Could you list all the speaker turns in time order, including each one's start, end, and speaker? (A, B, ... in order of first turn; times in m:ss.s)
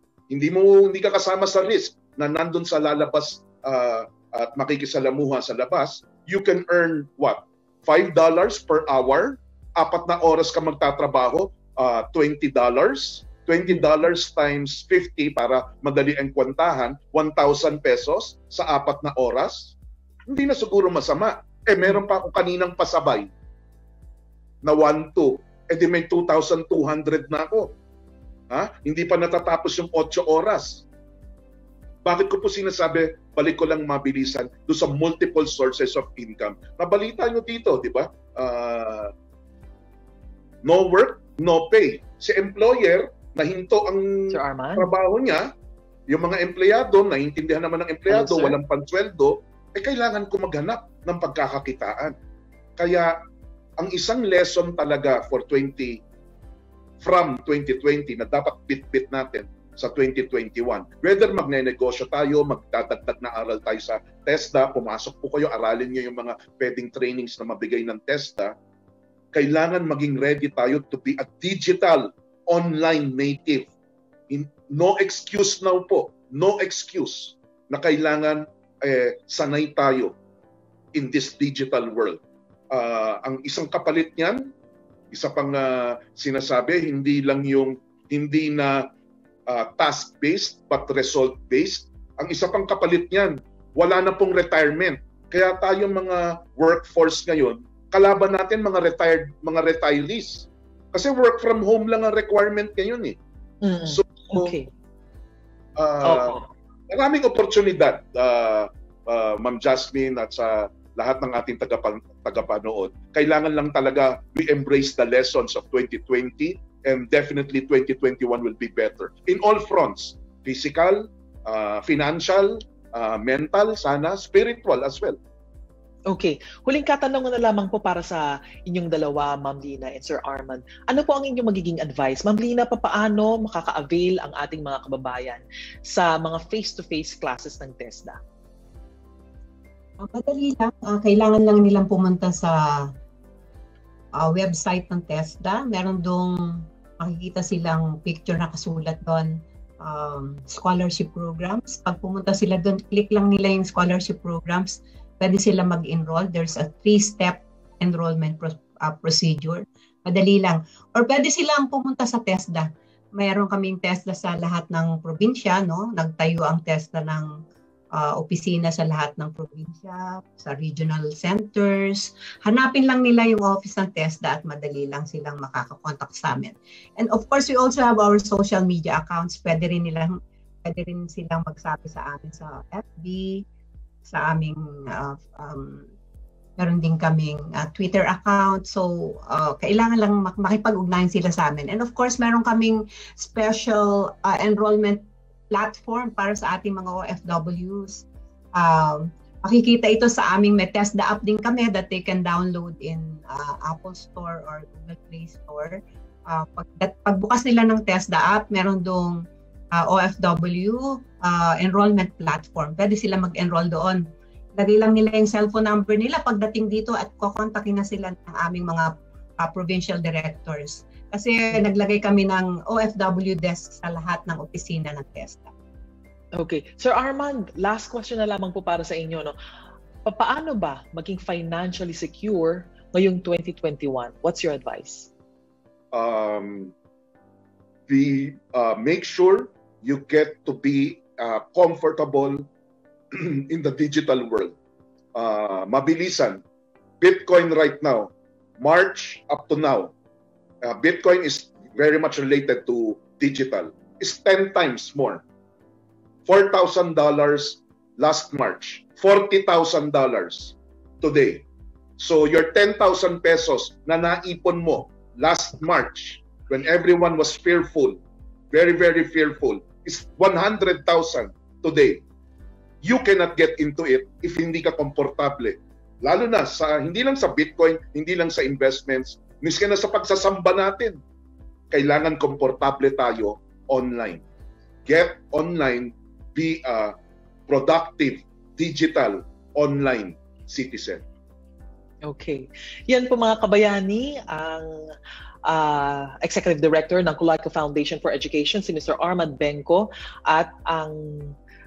0:00.3-0:19.8 A
0:13.7-0:13.9 B
0:20.3-0:23.3 A
0:24.6-0:27.7 A
0:28.5-0:30.8 A
0:32.0-0:39.1 A
0:40.6-0:45.5 A
0:44.3-0:44.9 B
0:46.1-0:52.2 A
0:48.1-0:48.6 B
0:52.8-0:53.2 A
0:53.8-0:56.0 A
0:57.0-1:08.5 A
1:09.3-1:13.7 A
1:14.3-1:20.2 A
1:20.9-1:22.2 A
1:22.7-1:24.5 A
1:25.1-1:28.9 A
1:29.5-1:43.2 A
1:43.6-1:44.7 B
1:43.8-1:44.5 A
1:45.8-2:05.2 A
1:46.0-1:46.5 B
2:06.1-2:18.2 B
2:20.0-2:22.9 C
2:24.2-2:47.4 C
2:47.9-3:03.4 C
3:04.1-3:05.9 C
3:06.6-3:18.0 C
3:18.6-3:29.2 C
3:29.7-3:45.5 C
3:46.4-3:49.3 B
3:50.0-3:55.1 B
3:55.9-3:56.7 A
3:57.9-4:02.4 A
4:03.1-4:04.5 A
4:05.1-4:06.4 A
4:07.0-4:09.9 A
4:10.6-4:15.2 A
4:16.2-4:21.4 A
4:22.0-4:28.0 A
4:28.5-4:32.0 A
4:32.8-4:41.0 A
4:41.7-4:44.2 A
4:44.8-4:47.0 A
4:47.5-4:51.0 A
4:52.0-4:54.7 B
4:55.4-5:01.4 B